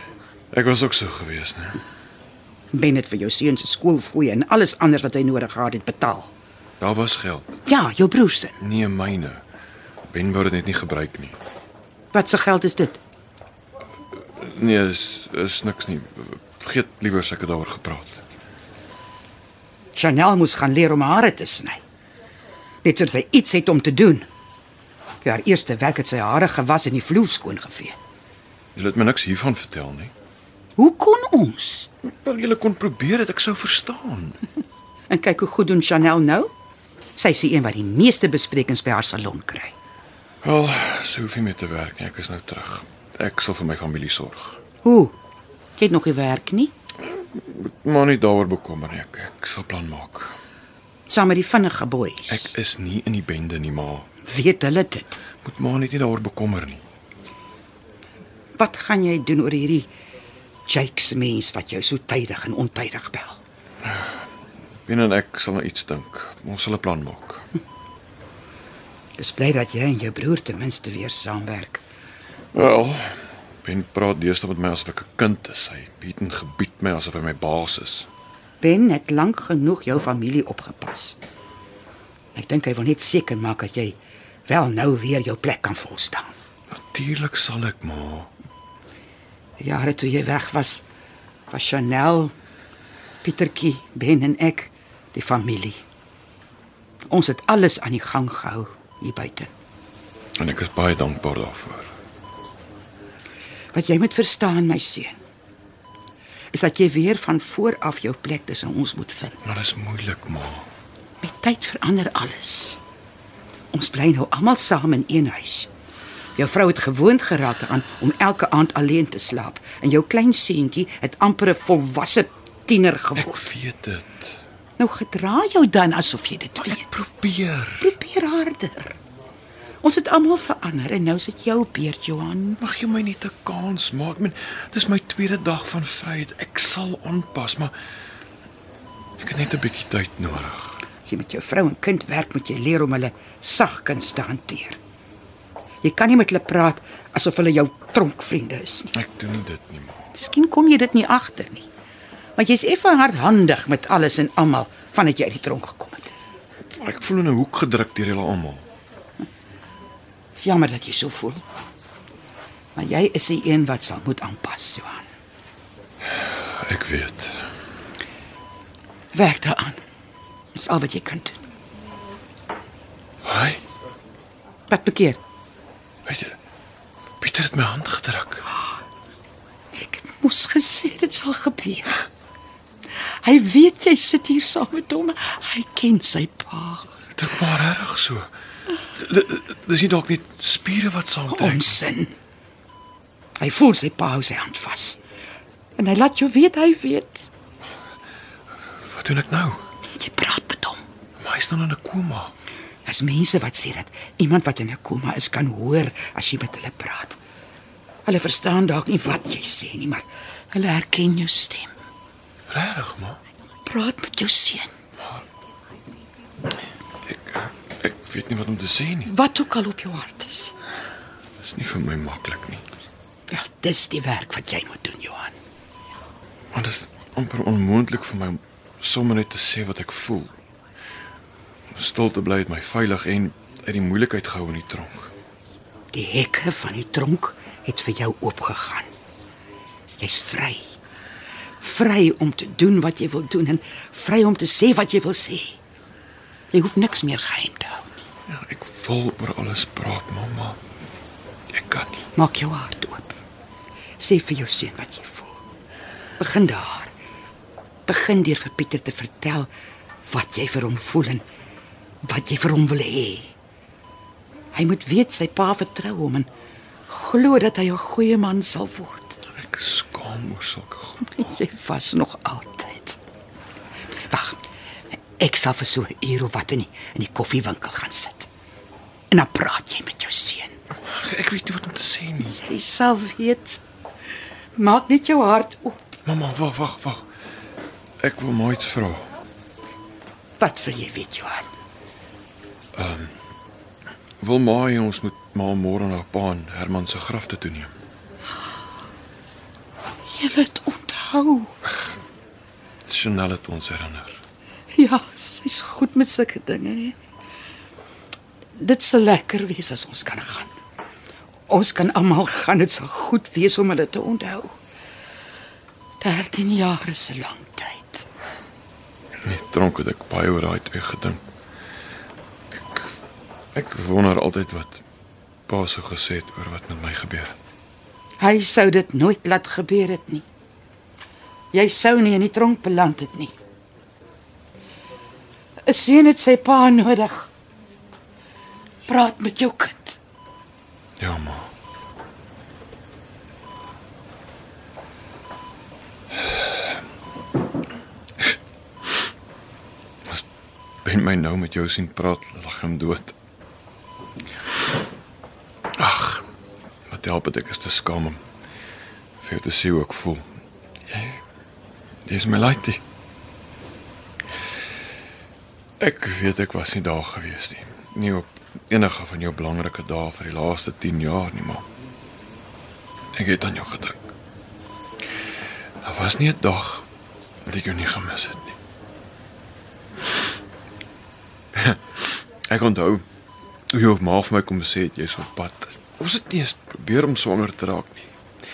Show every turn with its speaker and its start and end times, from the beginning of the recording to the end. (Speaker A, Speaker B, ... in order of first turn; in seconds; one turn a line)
Speaker A: 0.5-1.8
Speaker B: 2.7-6.3
Speaker A: 6.8-7.6
Speaker B: 7.7-8.6
Speaker A: 8.6-9.4
Speaker A: 10.1-11.4
Speaker B: 12.1-13.0
Speaker A: 14.4-18.2
Speaker B: 19.9-21.8
Speaker B: 22.8-24.3
Speaker B: 25.2-28.0
Speaker A: 28.8-30.1
Speaker B: 30.8-31.9
Speaker A: 32.0-34.4
Speaker B: 35.1-36.5
Speaker B: 37.2-39.7
Speaker A: 40.4-44.6
Speaker B: 44.8-45.1
Speaker B: 45.8-46.7
Speaker A: 47.0-50.4
Speaker B: 51.1-52.5
Speaker A: 52.3-54.1
Speaker B: 54.2-55.2
Speaker A: 55.4-56.8
Speaker B: 58.6-59.9
Speaker B: 60.7-63.4
Speaker A: 63.8-64.2
Speaker A: 64.9-67.5
Speaker B: 69.2-71.8
Speaker A: 72.5-78.1
Speaker B: 78.6-81.2
Speaker B: 82.3-86.3
Speaker A: 86.7-88.3
Speaker B: 89.6-90.8
Speaker B: 91.5-92.3
Speaker B: 93.2-95.8
Speaker B: 97.1-99.5
Speaker A: 100.4-101.9
Speaker B: 103.7-105.2
Speaker B: 106.5-109.4
Speaker A: 109.4-110.7
Speaker B: 111.2-112.8
Speaker B: 113.7-115.7
Speaker B: 116.4-123.5
Speaker A: 123.2-124.4
Speaker B: 124.8-126.9
Speaker A: 126.6-128.0
Speaker B: 127.8-129.0
Speaker B: 129.8-132.6
Speaker A: 132.6-137.7
Speaker A: 139.2-140.8
Speaker B: 141.1-144.8
Speaker B: 145.8-148.9
Speaker A: 148.9-150.1
Speaker B: 150.2-151.7
Speaker B: 152.4-156.1
Speaker A: 156.8-158.7
Speaker B: 160.4-161.4
Speaker B: 162.8-165.1
Speaker A: 166.2-167.5
Speaker B: 169.1-169.8
Speaker B: 170.5-171.4
Speaker A: 173.2-173.6
Speaker B: 174.7-175.2
Speaker A: 176.1-176.4
Speaker A: 177.2-178.5
Speaker B: 179.7-181.9
Speaker B: 183.2-187.0
Speaker A: 187.2-188.3
Speaker A: 188.9-191.8
Speaker B: 191.3-192.1
Speaker B: 193.4-195.0
Speaker B: 195.8-197.3
Speaker A: 198.8-199.6
Speaker B: 199.9-200.8
Speaker A: 201.2-202.3
Speaker B: 202.9-207.2
Speaker B: 208.1-211.7
Speaker A: 212.5-213.2
Speaker B: 213.7-214.7
Speaker A: 217.1-219.1
Speaker B: 219.1-220.6
Speaker A: 221.4-222.6
Speaker B: 223.3-225.4
Speaker A: 226.5-230.3
Speaker A: 231.8-235.1
Speaker B: 235.9-238.9
Speaker B: 240.0-240.7
Speaker B: 241.6-245.6
Speaker B: 246.5-248.0
Speaker A: 248.3-250.6
Speaker A: 251.5-252.1
Speaker B: 252.2-253.2
Speaker B: 254.0-255.4
Speaker B: 256.2-256.9
Speaker B: 257.9-259.5
Speaker B: 260.0-261.2
Speaker B: 262.0-263.3
Speaker B: 264.5-266.3
Speaker B: 266.9-269.2
Speaker A: 269.3-271.2
Speaker B: 271.1-273.0
Speaker B: 274.1-274.4
Speaker B: 275.2-278.3
Speaker B: 279.1-280.6
Speaker A: 280.9-282.4
Speaker B: 282.2-283.6
Speaker B: 284.6-286.0
Speaker A: 286.1-287.1
Speaker A: 288.0-289.1
Speaker B: 290.4-291.5
Speaker A: 292.8-293.1
Speaker A: 294.2-297.7
Speaker B: 300.1-301.6
Speaker A: 302.9-304.2
Speaker B: 304.8-307.0
Speaker B: 308.6-310.5
Speaker B: 311.5-314.6
Speaker B: 316.0-318.1
Speaker A: 319.2-321.2
Speaker A: 322.5-322.9
Speaker A: 323.5-324.8
Speaker A: 325.5-327.4
Speaker B: 328.2-330.3
Speaker B: 331.5-333.4
Speaker B: 335.7-337.3
Speaker B: 338.9-340.0
Speaker A: 341.0-341.5
Speaker A: 350.8-353.1
Speaker A: 355.8-356.3
Speaker A: 356.9-358.2
Speaker A: 359.2-360.3
Speaker A: 360.9-361.2
Speaker A: 362.1-362.8
Speaker A: 365.8-371.7
Speaker A: 373.1-374.0
Speaker A: 375.8-376.9
Speaker A: 377.4-378.6
Speaker A: 381.5-383.1
Speaker A: 383.7-388.1